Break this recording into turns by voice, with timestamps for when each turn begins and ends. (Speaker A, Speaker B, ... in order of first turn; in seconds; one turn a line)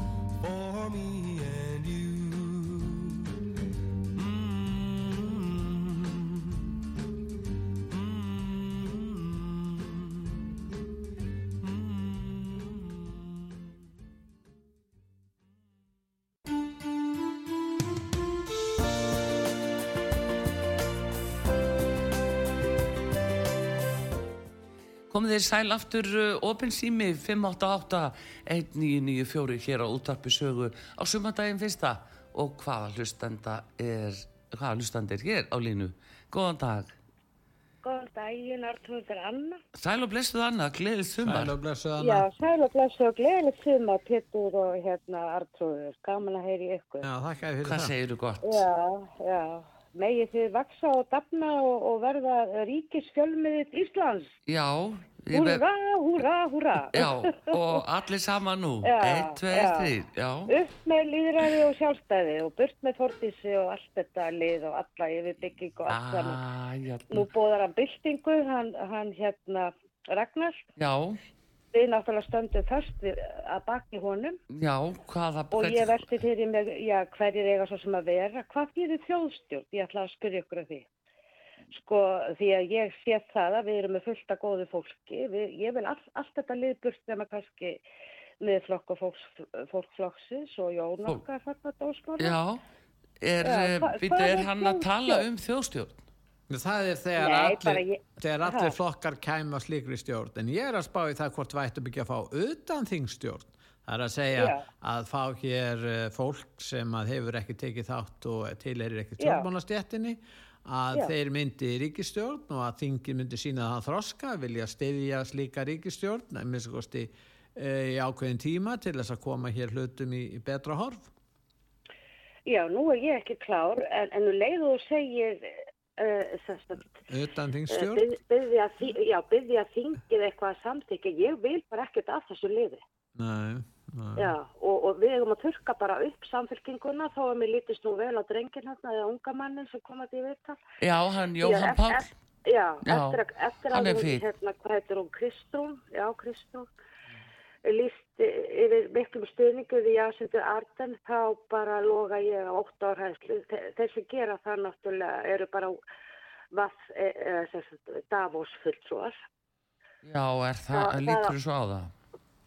Speaker A: 0.4-3.2
Speaker A: 4.1-6.6
Speaker A: 7.9-10.4
Speaker A: 11.6-13.6
Speaker B: 25.1-37.0
Speaker C: 37.8-39.6
Speaker B: 39.8-41.5
Speaker D: 41.2-42.3
Speaker C: 42.0-47.1
Speaker D: 47.0-47.9
Speaker B: 47.6-48.7
Speaker C: 48.4-54.3
Speaker B: 54.5-55.6
Speaker C: 55.3-57.8
Speaker B: 56.9-60.5
Speaker C: 58.8-59.9
Speaker C: 60.5-66.4
Speaker B: 65.9-67.3
Speaker C: 67.1-70.6
Speaker B: 70.8-71.2
Speaker C: 71.7-74.4
Speaker B: 74.5-76.1
Speaker C: 75.5-80.9
Speaker C: 81.7-87.8
Speaker C: 88.4-92.4
Speaker B: 92.2-92.6
Speaker B: 93.2-96.0
Speaker C: 93.4-95.2
Speaker D: 96.5-121.1
Speaker C: 97.2-98.7
Speaker C: 104.3-104.6
Speaker C: 109.2-109.5
Speaker C: 122.5-127.0
Speaker D: 127.1-128.1
Speaker C: 127.7-132.8
Speaker D: 133.2-134.3
Speaker C: 134.2-140.6
Speaker B: 140.8-142.1
Speaker C: 141.4-146.7
Speaker B: 142.8-143.2
Speaker B: 143.7-144.2
Speaker C: 147.6-155.8
Speaker C: 156.5-159.2
Speaker B: 160.0-161.9
Speaker C: 160.7-161.3